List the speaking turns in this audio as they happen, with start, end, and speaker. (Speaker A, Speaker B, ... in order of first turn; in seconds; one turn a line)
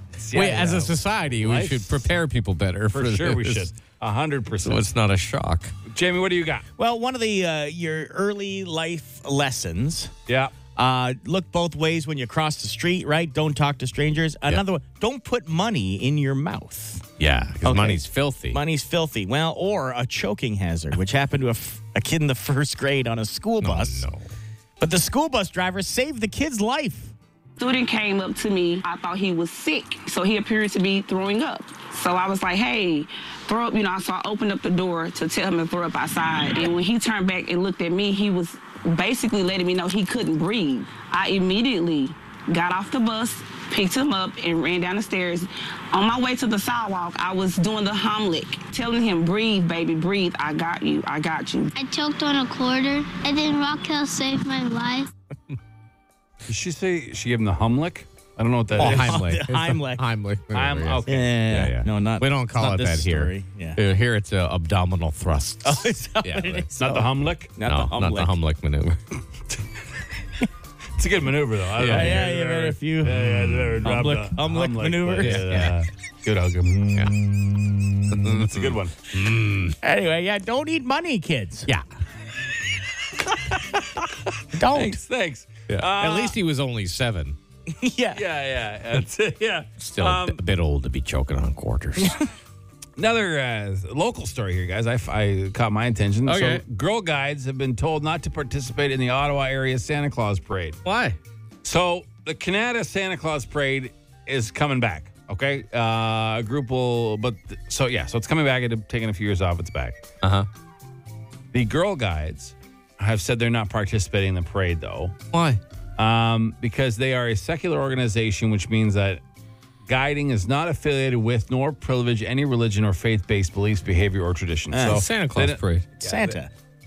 Speaker A: 0.2-2.1
Speaker B: 0.3-3.7
Speaker A: 2.9-4.9
Speaker B: 4.6-5.7
Speaker A: 5.9-6.6
Speaker C: 6.8-10.1
Speaker A: 10.3-10.5
Speaker C: 10.8-17.1
Speaker B: 17.2-18.6
Speaker C: 17.6-24.1
Speaker B: 23.6-24.3
Speaker C: 24.8-27.1
Speaker D: 27.6-51.7
Speaker E: 51.7-55.1
Speaker A: 56.5-59.2
Speaker C: 58.7-60.0
Speaker B: 58.8-66.7
Speaker A: 60.5-61.3
Speaker C: 61.1-63.8
Speaker C: 65.6-68.3
Speaker A: 66.8-67.5
Speaker B: 67.6-69.0
Speaker A: 71.0-79.0
Speaker B: 71.8-72.2
Speaker C: 71.8-75.5
Speaker B: 73.8-74.1
Speaker B: 75.2-75.8
Speaker B: 78.1-79.8
Speaker C: 79.8-81.7
Speaker C: 84.5-85.0
Speaker A: 84.7-86.4
Speaker B: 85.7-87.4
Speaker C: 87.7-88.2
Speaker A: 88.1-90.4
Speaker B: 89.8-92.2
Speaker A: 93.0-100.8
Speaker B: 96.2-96.6
Speaker B: 100.8-101.2
Speaker A: 101.6-110.0
Speaker B: 110.2-110.5
Speaker A: 111.5-115.1
Speaker B: 115.3-115.6
Speaker A: 116.0-119.2
Speaker A: 119.9-126.4
Speaker C: 124.7-125.0
Speaker B: 124.8-125.8
Speaker C: 126.0-126.5